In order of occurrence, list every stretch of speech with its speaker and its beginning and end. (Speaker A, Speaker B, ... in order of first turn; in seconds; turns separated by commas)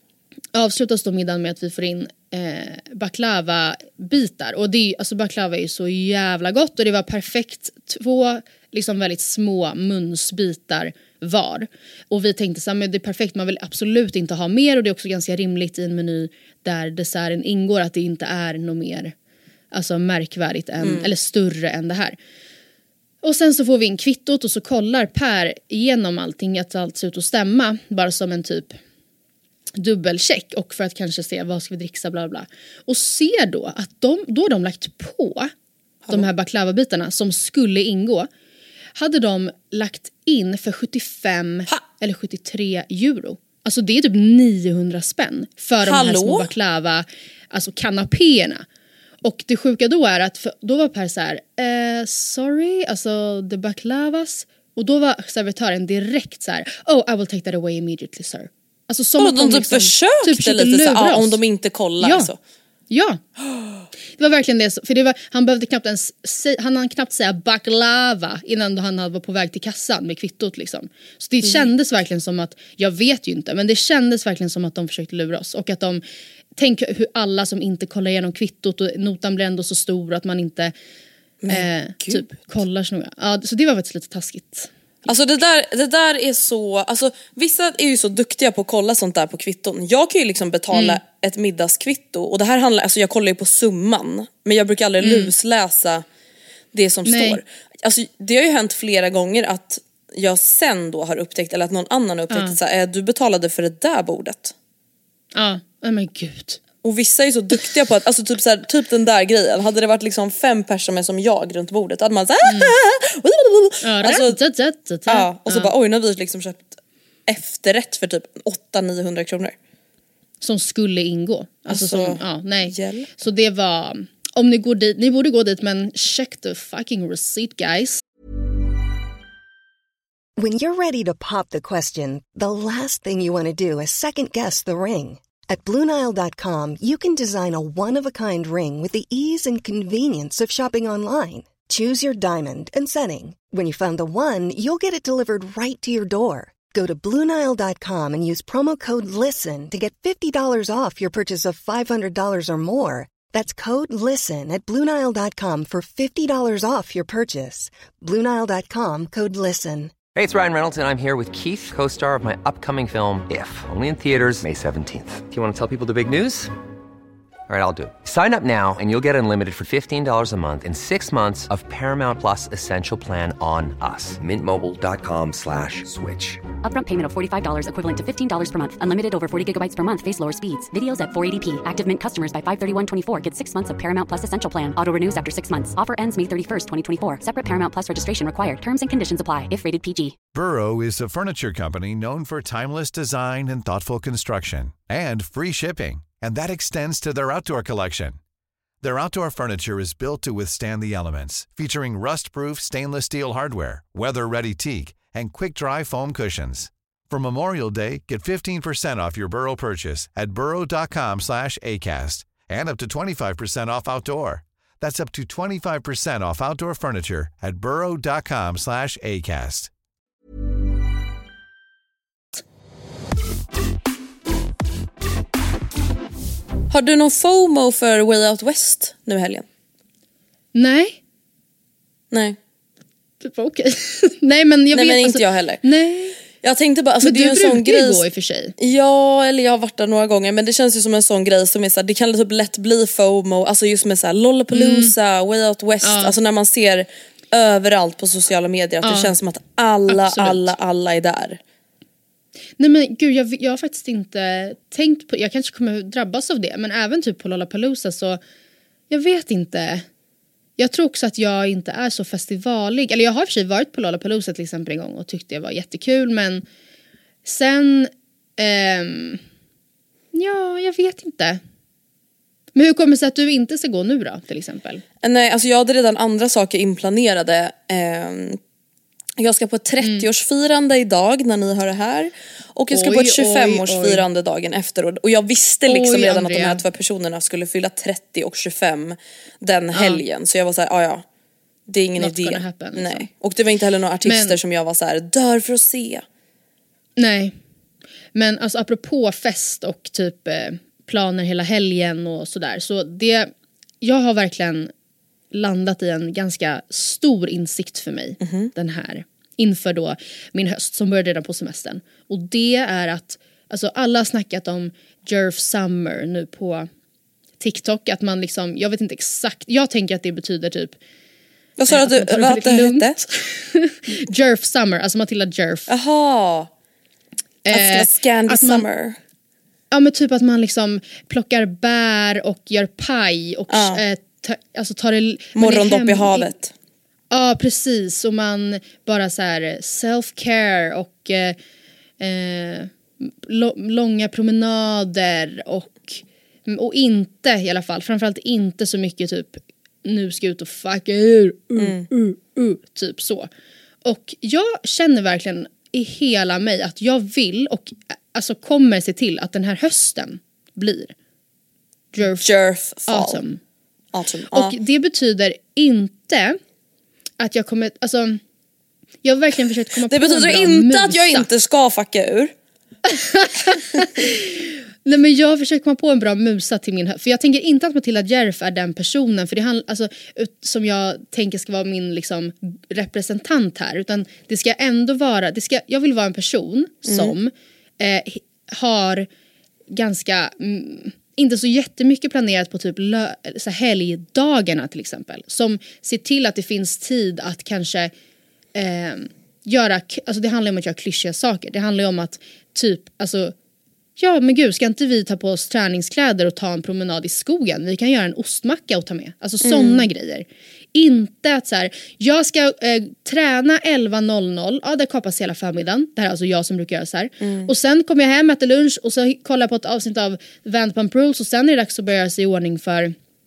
Speaker A: 0.5-19.1, Speaker A: 19.7-22.2, Speaker B: 20.8-21.1, Speaker A: 23.2-28.8, Speaker A: 29.7-35.5, Speaker A: 36.1-38.3, Speaker A: 39.0-48.6, Speaker B: 45.8-46.5, Speaker A: 49.2-61.4, Speaker B: 59.2-62.4, Speaker A: 62.0-62.3, Speaker A: 62.9-63.2, Speaker A: 64.2-76.0, Speaker A: 76.5-80.7, Speaker B: 81.4-82.5, Speaker A: 81.5-84.7, Speaker B: 85.0-96.0, Speaker A: 90.7-91.0, Speaker A: 95.0-95.3, Speaker B: 96.7-104.5, Speaker A: 97.0-97.4, Speaker A: 102.3-102.6, Speaker A: 105.3-106.6, Speaker B: 106.8-114.4, Speaker A: 112.4-112.7, Speaker A: 113.8-115.7, Speaker B: 115.1-119.5, Speaker A: 120.4-128.0, Speaker B: 121.7-123.1, Speaker C: 130.4-159.9, Speaker D: 160.1-166.5, Speaker D: 167.5-176.5, Speaker E: 176.6-190.2, Speaker F: 190.3-198.2, Speaker F: 198.8-219.7, Speaker B: 226.7-229.4, Speaker A: 230.5-231.0, Speaker B: 232.1-232.4, Speaker A: 233.2-236.2, Speaker B: 234.7-235.6, Speaker B: 236.4-238.0, Speaker A: 237.0-238.5, Speaker B: 238.6-251.4, Speaker A: 244.5-244.9, Speaker A: 245.8-246.1, Speaker A: 248.8-249.1, Speaker A: 249.9-250.5, Speaker A: 252.6-258.2, Speaker A: 258.9-259.8, Speaker A: 260.6-266.4, Speaker A: 267.2-269.2, Speaker A: 270.1-271.4, Speaker A: 272.5-274.8, Speaker B: 275.0-278.4, Speaker B: 279.2-291.0, Speaker A: 279.8-280.1, Speaker A: 282.7-284.0, Speaker A: 285.7-286.6, Speaker A: 289.7-290.0, Speaker B: 291.7-296.0, Speaker A: 292.0-293.1, Speaker A: 294.0-294.4, Speaker A: 297.0-297.4, Speaker A: 298.1-304.7, Speaker A: 305.3-316.7, Speaker B: 308.2-308.5, Speaker A: 317.4-320.8, Speaker B: 321.6-323.0, Speaker A: 321.7-325.7, Speaker B: 325.7-326.5, Speaker A: 327.4-328.6, Speaker B: 327.5-329.0, Speaker A: 329.7-336.3, Speaker B: 333.5-333.8, Speaker B: 335.4-336.5, Speaker A: 337.1-341.4, Speaker A: 342.0-353.3, Speaker B: 351.6-351.9, Speaker A: 353.8-360.9, Speaker A: 361.9-362.3, Speaker B: 362.2-363.2, Speaker A: 362.9-363.4, Speaker B: 363.9-364.5, Speaker A: 364.3-366.4, Speaker A: 367.2-368.2, Speaker A: 369.0-371.3, Speaker B: 369.9-372.3, Speaker A: 372.9-389.1, Speaker B: 386.8-387.1, Speaker A: 389.7-397.9, Speaker A: 398.5-403.3, Speaker A: 404.0-422.9, Speaker B: 409.4-409.9, Speaker B: 417.2-417.5